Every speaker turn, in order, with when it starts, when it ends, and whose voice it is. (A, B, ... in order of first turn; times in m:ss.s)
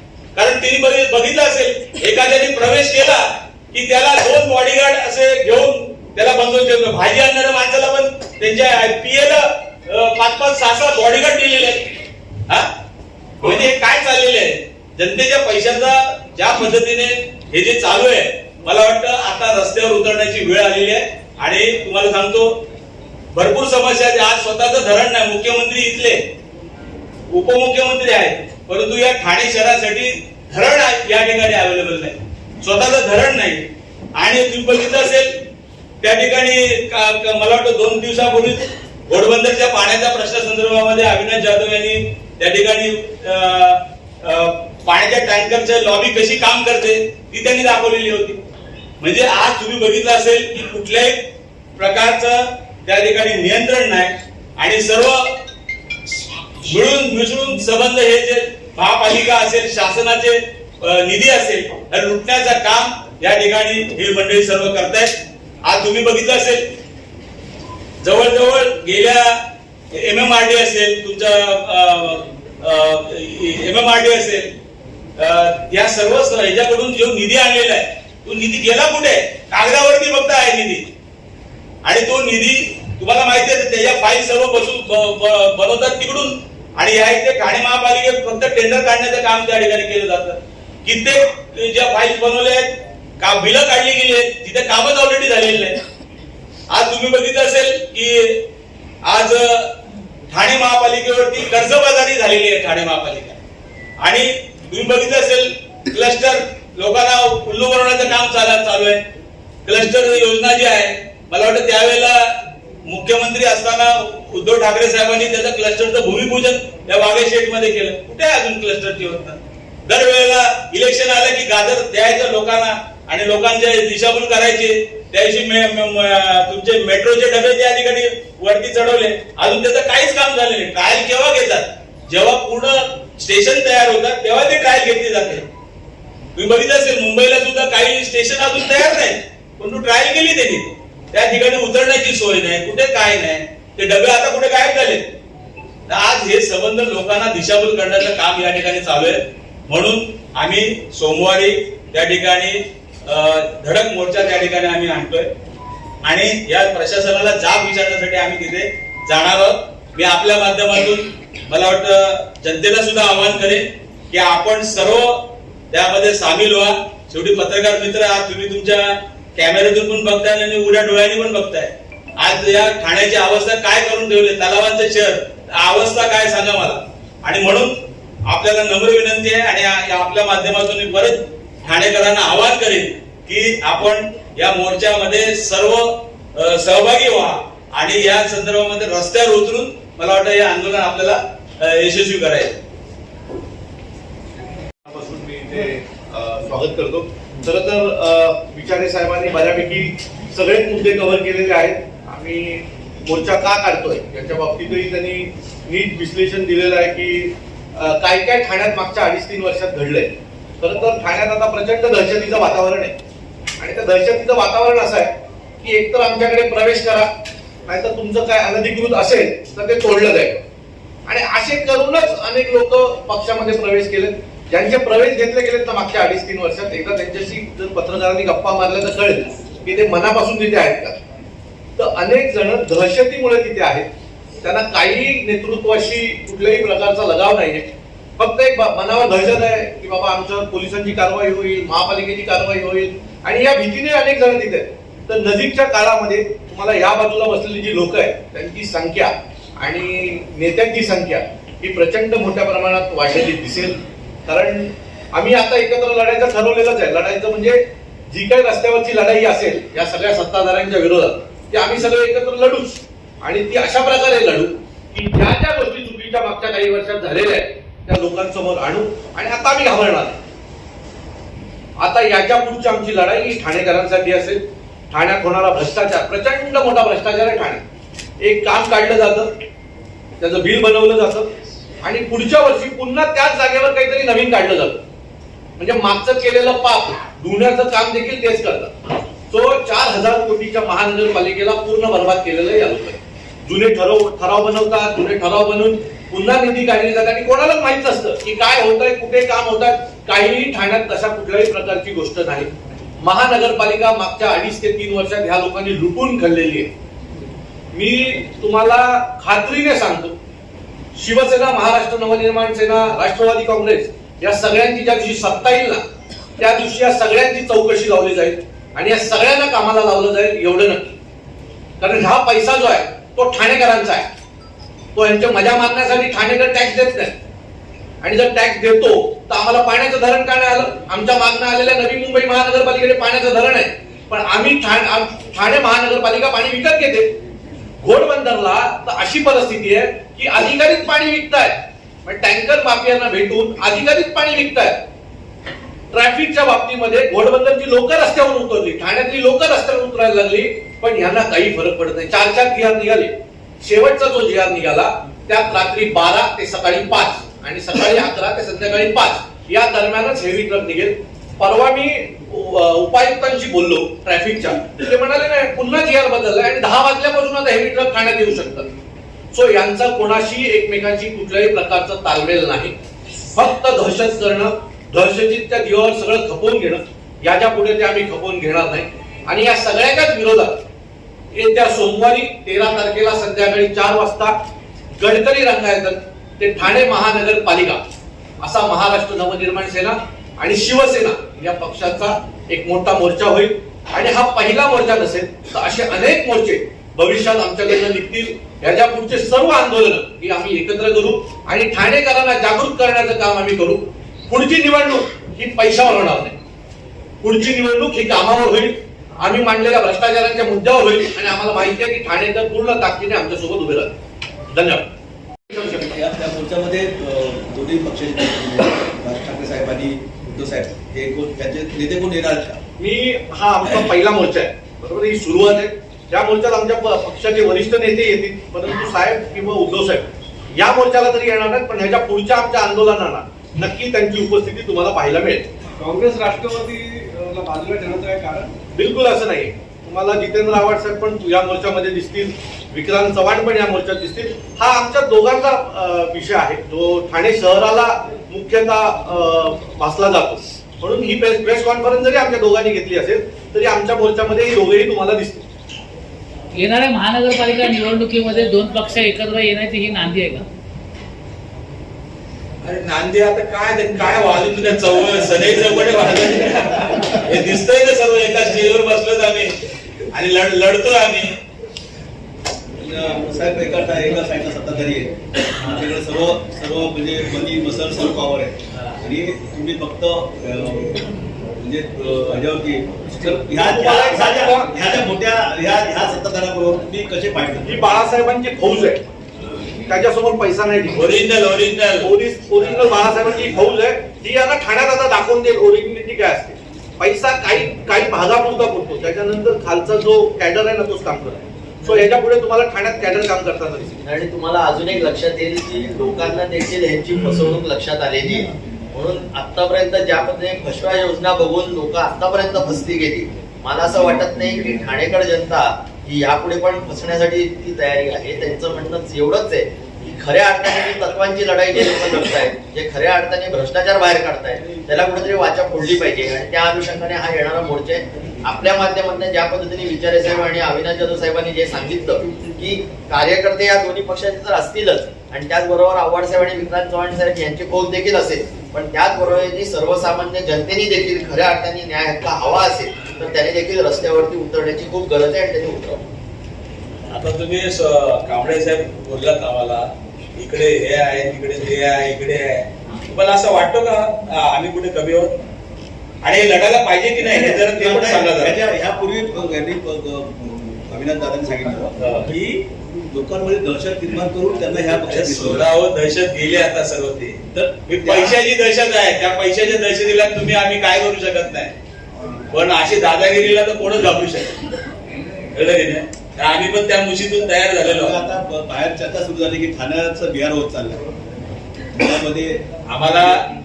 0:00.3-0:11.9 A
0:13.4-0:22.5 A
0:23.3-0:26.2 A
0:27.3-0:33.6 A
0:34.2-0:35.4 A
0:36.0-0:48.4 A
0:49.0-0:55.4 A
0:56.6-1:06.7 A
1:08.0-1:09.4 A
1:09.9-1:14.5 A
1:15.2-1:20.8 A
1:21.8-1:35.8 A
1:36.7-1:38.4 A
1:39.0-1:39.7 A
1:40.3-1:43.4 A
1:44.0-1:49.0 A
1:49.6-1:52.3 A
1:52.8-2:15.4 A
2:16.4-2:25.1 A
2:25.9-2:35.3 A
2:36.0-2:57.7 A
2:58.3-3:12.6 A
3:14.8-3:32.9 B
3:33.6-3:37.1 B
3:37.7-3:40.4 B
3:41.1-3:51.0 B
3:51.8-3:53.9 B
3:54.4-3:57.6 B
3:58.2-4:30.2 B
4:31.8-4:37.6 B
4:38.2-4:39.3 B
4:40.2-4:41.3 B
4:41.8-4:44.8 B
4:45.6-4:48.7 B
4:49.3-5:06.7 B
5:07.7-5:10.1 B
5:10.9-5:15.8 B
5:16.4-5:20.9 B
5:21.8-5:24.0 B
5:24.9-5:27.1 B
5:28.0-5:37.1 B
5:37.8-5:44.8 B
5:45.9-6:08.7 B
6:09.3-6:12.7 B
6:13.3-6:20.6 B
6:21.3-6:24.3 B
6:25.0-6:27.8 B
6:28.4-6:46.3 B
6:47.2-6:53.9 B
6:54.5-6:54.9 B
6:55.5-7:02.6 C
7:02.8-7:15.4 B
7:15.8-7:18.5 D
7:18.7-7:35.4 B
7:36.5-7:40.4 E
7:42.6-7:49.5 A
7:50.1-7:51.4 A
7:52.8-8:07.9 C
8:03.4-8:04.7 B
8:07.6-8:09.0 B
8:09.9-8:11.1 B
8:10.9-8:12.1 A
8:12.0-8:24.0 B
8:24.0-9:06.0 F
9:07.1-9:15.4 A
9:16.2-9:18.6 A
9:17.2-9:22.6 C
9:22.0-9:22.4 A
9:23.1-9:25.7 C
9:25.1-9:31.7 A
9:27.5-9:28.4 C
9:32.5-9:34.6 A
9:35.5-9:38.2 A
9:37.8-9:41.0 C
9:42.0-9:42.6 C
9:42.9-9:43.4 A